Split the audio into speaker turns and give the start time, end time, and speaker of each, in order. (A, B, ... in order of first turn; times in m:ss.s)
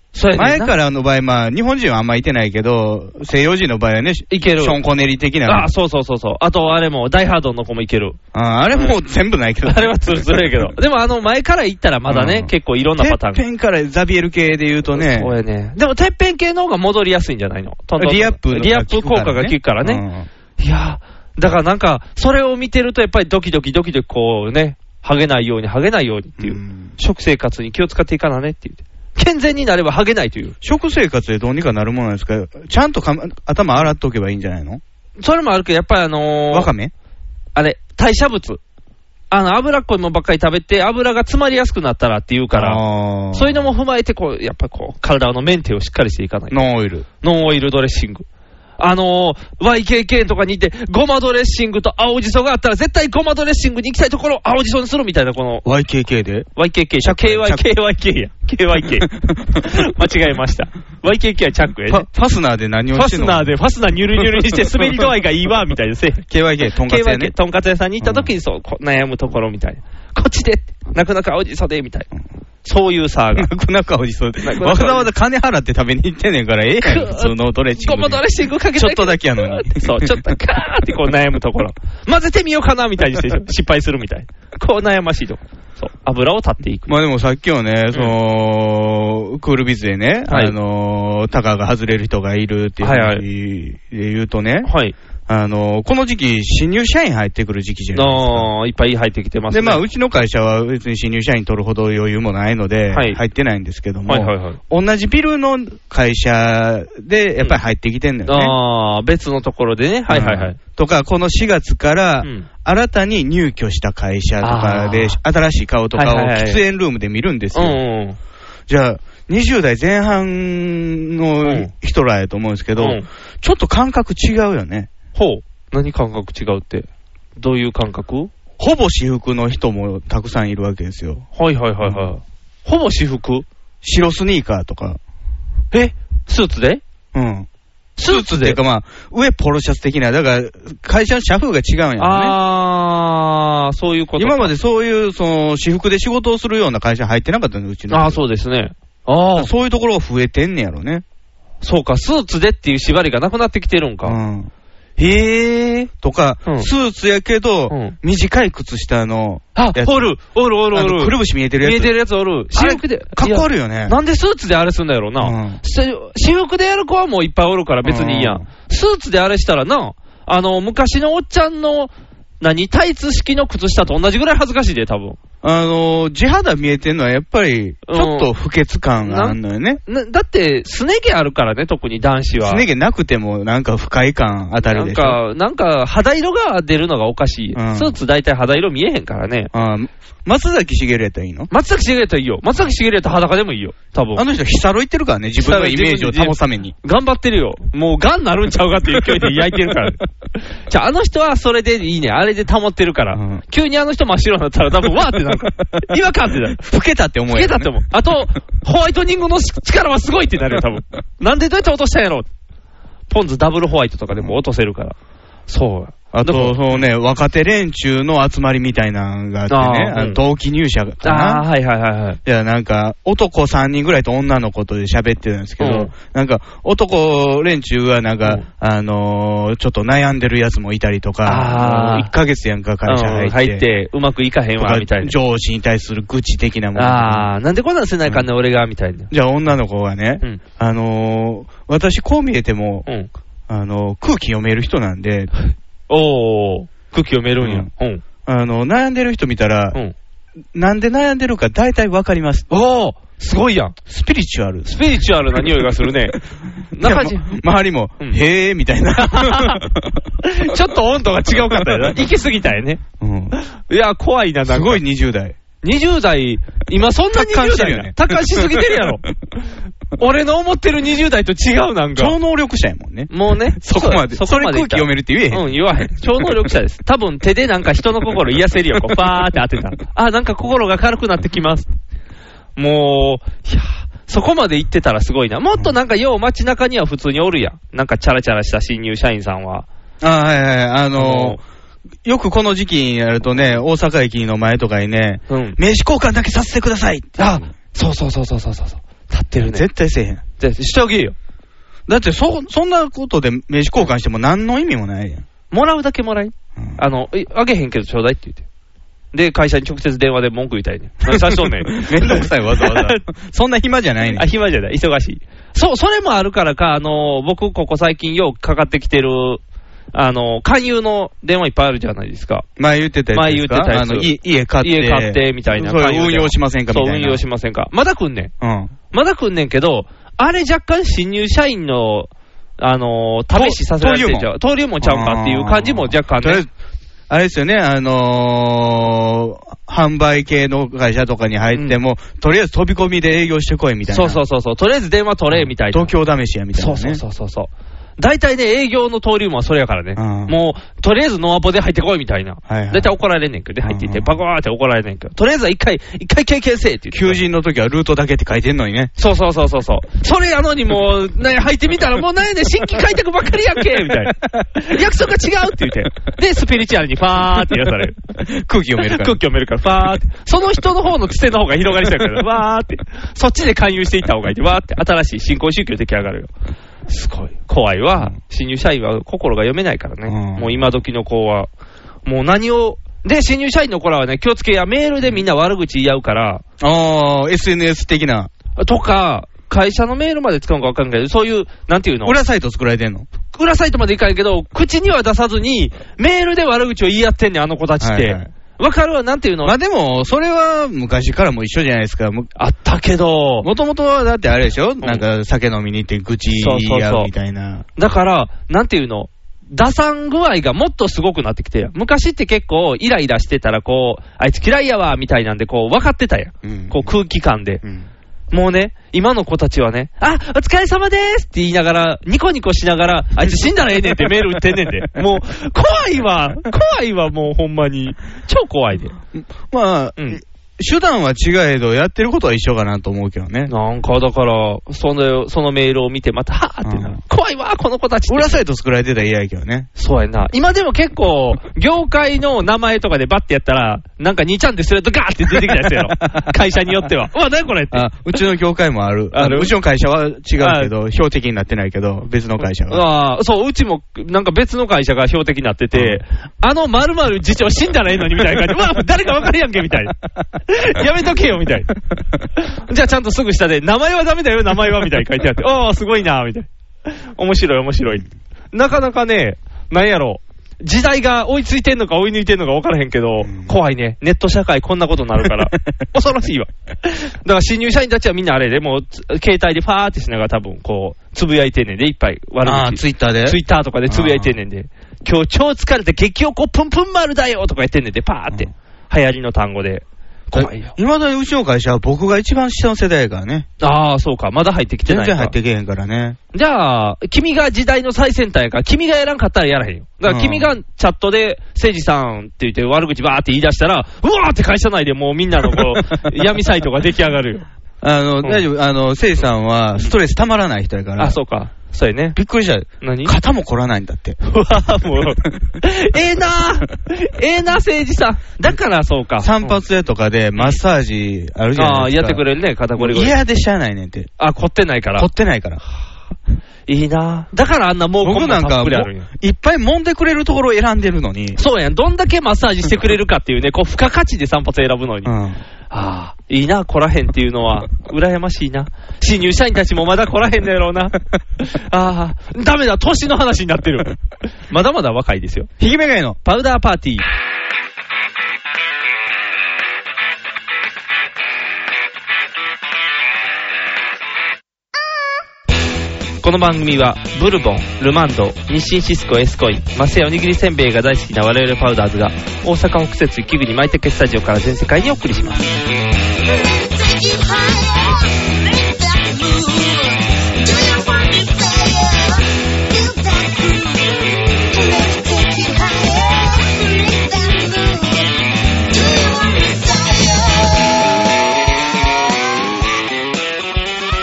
0:00.1-0:00.7 A
0:00.3-0:05.7 B
0:04.3-0:04.8 A
0:05.5-0:08.2 A
0:08.3-0:10.7 B
0:09.7-0:13.4 A
0:12.1-0:15.3 B
0:14.9-0:20.0 A
0:18.0-0:20.3 B
0:20.6-0:30.6 A
0:26.4-0:26.9 B
0:30.6-0:34.8 B
0:35.2-0:36.7 A
0:36.5-0:36.9 B
0:37.6-0:38.6 A
0:39.3-0:42.8 A
0:42.5-0:43.7 B
0:43.3-0:46.6 A
0:46.5-0:47.1 B
0:47.2-0:48.3 A
0:48.8-0:55.6 A
0:55.6-0:57.7 B
0:56.6-1:02.1 A
0:58.9-0:59.7 B
1:01.9-1:03.5 B
1:02.9-1:06.2 A
1:04.2-1:05.1 B
1:06.3-1:07.3 B
1:06.8-1:12.1 A
1:08.0-1:08.3 B
1:12.6-1:13.5 A
1:13.4-1:18.2 B
1:14.4-1:15.1 A
1:16.8-1:26.9 A
1:18.7-1:20.2 B
1:26.9-1:34.7 B
1:30.3-1:30.6 A
1:32.8-1:33.2 A
1:34.6-1:35.0 A
1:35.3-1:38.5 B
1:37.9-1:39.8 A
1:39.5-1:48.6 B
1:42.9-1:43.2 A
1:44.1-1:44.6 A
1:48.3-1:50.6 A
1:50.1-1:57.8 B
1:54.4-1:55.2 A
1:55.9-1:56.6 A
1:57.5-1:58.2 A
1:58.7-2:04.9 B
2:01.4-2:01.7 A
2:02.8-2:03.1 A
2:05.2-2:08.3 A
2:08.6-2:11.3 B
2:11.4-2:13.5 A
2:11.8-2:12.1 B
2:13.8-2:15.0 B
2:15.7-2:16.8 A
2:17.1-2:17.5 B
2:18.0-2:18.6 A
2:18.0-2:22.4 B
2:22.0-2:24.5 A
2:24.2-2:28.2 B
2:27.9-2:29.5 A
2:29.4-2:31.0 B
2:31.6-2:34.2 A
2:34.0-2:34.5 B
2:35.0-2:35.9 A
2:36.0-2:40.2 B
2:37.7-2:38.0 A
2:39.6-2:55.2 A
2:40.7-2:41.9 B
2:42.5-2:44.0 B
2:45.2-2:45.6 B
2:47.8-2:48.5 B
2:55.4-2:59.8 B
2:57.9-2:58.3 A
2:59.0-3:02.6 A
3:02.4-3:05.2 B
3:04.7-3:09.5 A
3:07.6-3:08.0 B
3:09.5-3:11.5 B
3:11.5-3:14.2 A
3:14.2-3:16.8 B
3:15.4-3:20.0 A
3:20.7-3:26.6 A
3:23.1-3:23.4 B
3:26.6-3:27.7 B
3:27.3-3:32.3 A
3:33.1-3:35.0 A
3:35.5-3:36.6 A
3:36.1-3:41.5 B
3:39.5-3:40.2 A
3:41.0-3:42.2 A
3:42.2-3:53.6 B
3:45.6-3:45.9 A
3:51.2-3:52.1 A
3:52.8-3:55.2 A
3:54.6-3:57.3 B
3:56.8-3:59.1 A
3:59.1-4:02.9 B
4:03.5-4:05.3 B
4:05.9-4:08.0 A
4:07.4-4:07.7 B
4:08.2-4:09.8 B
4:10.5-4:12.5 B
4:12.5-4:13.8 A
4:13.9-4:14.8 B
4:14.6-4:16.2 A
4:15.4-4:15.6 B
4:16.7-4:17.4 A
4:16.8-4:20.0 B
4:19.0-4:19.6 A
4:20.2-4:22.8 A
4:21.4-4:22.0 B
4:23.0-4:23.4 B
4:23.6-4:24.8 A
4:24.4-4:25.4 B
4:25.6-4:29.0 A
4:27.1-4:28.9 B
4:30.0-4:32.2 A
4:32.0-4:35.5 B
4:33.1-4:41.7 A
4:42.6-4:49.7 A
4:50.0-4:51.4 B
4:51.0-4:51.4 A
4:52.0-4:57.5 B
4:55.3-4:55.6 A
4:57.2-4:59.7 A
4:59.4-5:00.2 B
5:00.4-5:01.2 A
5:01.9-5:05.2 B
5:05.5-5:08.4 A
5:09.1-5:13.0 A
5:11.1-5:14.2 B
5:14.1-5:19.4 A
5:19.9-5:22.5 A
5:22.6-5:27.2 B
5:23.1-5:28.3 A
5:28.4-5:28.7 B
5:28.9-5:36.4 A
5:33.3-5:36.5 B
5:37.1-5:44.2 B
5:41.5-5:41.8 A
5:43.9-5:45.9 A
5:45.3-5:47.0 B
5:46.5-5:57.2 A
5:50.0-5:50.4 B
5:52.5-5:52.9 B
5:53.6-5:54.2 B
5:56.9-5:58.9 B
5:59.0-6:08.0 A
6:08.2-6:09.2 B
6:08.8-6:16.3 A
6:16.9-6:21.5 A
6:20.1-6:20.8 B
6:22.0-6:26.4 A
6:26.6-6:28.3 B
6:28.6-6:32.2 A
6:32.0-6:33.1 B
6:33.3-6:39.5 A
6:37.8-6:38.3 B
6:39.4-6:42.3 B
6:42.4-6:43.5 A
6:43.4-6:47.7 B
6:46.3-6:47.1 A
6:47.8-6:57.6 A
6:56.4-6:56.9 B
6:57.6-6:57.9 B
6:58.3-7:09.0 A
7:03.2-7:03.5 B
7:09.1-7:13.5 B
7:13.5-7:18.4 A
7:16.6-7:17.0 B
7:18.1-7:19.7 B
7:19.8-7:28.2 A
7:25.4-7:26.2 B
7:27.7-7:32.8 B
7:29.1-7:29.5 A
7:30.4-7:30.7 A
7:32.7-7:40.0 A
7:35.7-7:36.0 B
7:40.5-7:41.7 A
7:42.5-8:10.7 A
7:53.2-7:53.5 B
8:02.4-8:04.3 B
8:10.3-8:13.5 B
8:13.6-8:15.4 A
8:14.8-8:16.2 B
8:16.3-8:27.5 A
8:20.0-8:20.5 B
8:27.8-8:31.2 B
8:31.0-8:32.2 A
8:32.2-8:34.2 B
8:32.8-8:33.2 A
8:34.2-8:39.6 A
8:39.2-8:42.2 B
8:41.6-8:43.2 A
8:42.8-8:44.1 B
8:44.2-8:45.1 A
8:45.0-8:45.6 B
8:46.7-8:49.1 A
8:48.0-8:51.4 B
8:51.4-8:55.1 A
8:55.0-8:55.4 B
8:55.7-9:03.9 A
9:04.5-9:05.5 A
9:05.6-9:06.2 B
9:06.2-9:07.0 A
9:16.2-9:25.4 A
9:26.2-9:40.8 C